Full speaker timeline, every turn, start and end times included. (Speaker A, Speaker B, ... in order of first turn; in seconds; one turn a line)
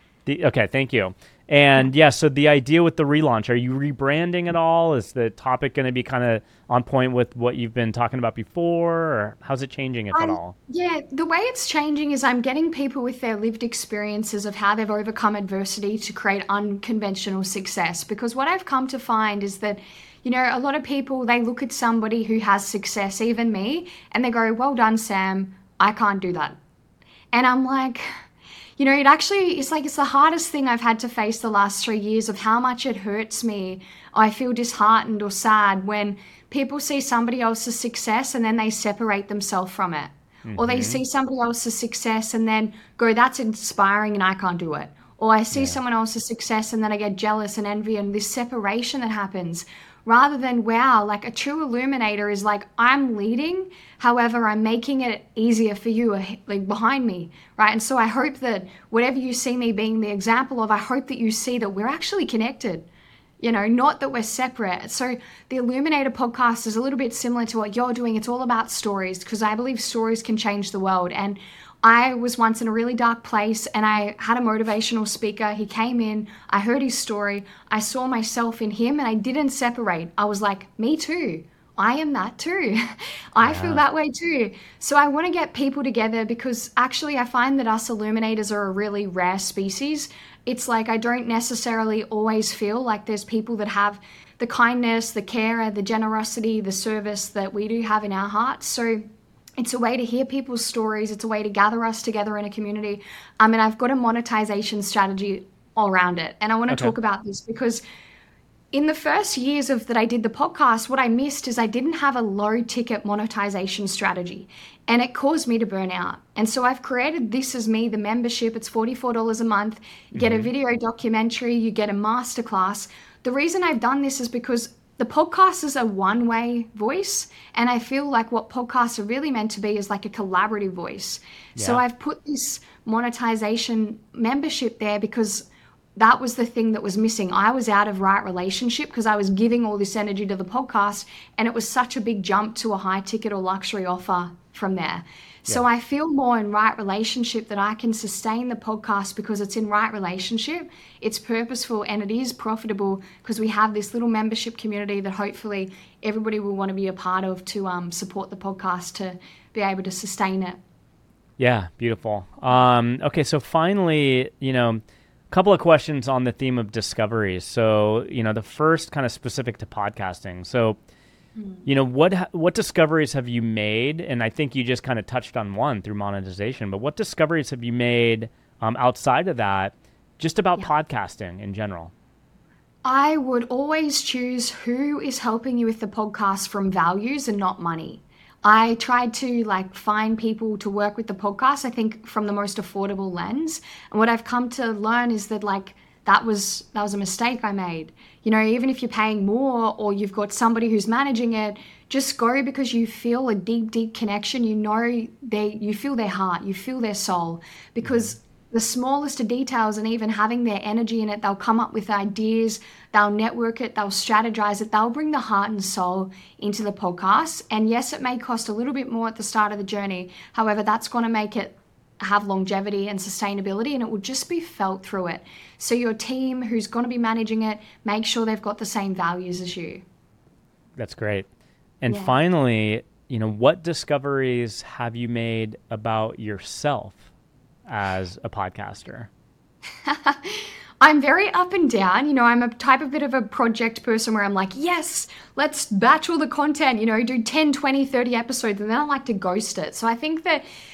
Speaker A: 0.2-10.6
Speaker B: 10.1-26.6
Speaker B: 27.3-28.1
Speaker B: 28.8-62.9
Speaker A: 40.5-41.0
Speaker A: 45.5-45.8
Speaker B: 63.4-99.0
Speaker A: 83.4-83.8
Speaker B: 99.6-107.8
Speaker A: 106.7-106.9
Speaker B: 108.7-135.4
Speaker A: 120.1-120.5
Speaker A: 131.6-131.8
Speaker B: 135.9-160.6
Speaker A: 161.4-170.8
Speaker B: 171.4-171.6
Speaker A: 171.7-181.9
Speaker B: 182.8-229.8
Speaker A: 207.8-208.1
Speaker A: 230.8-231.3
Speaker A: 231.8-237.0
Speaker B: 231.9-232.2
Speaker A: 237.7-239.1
Speaker B: 239.8-250.4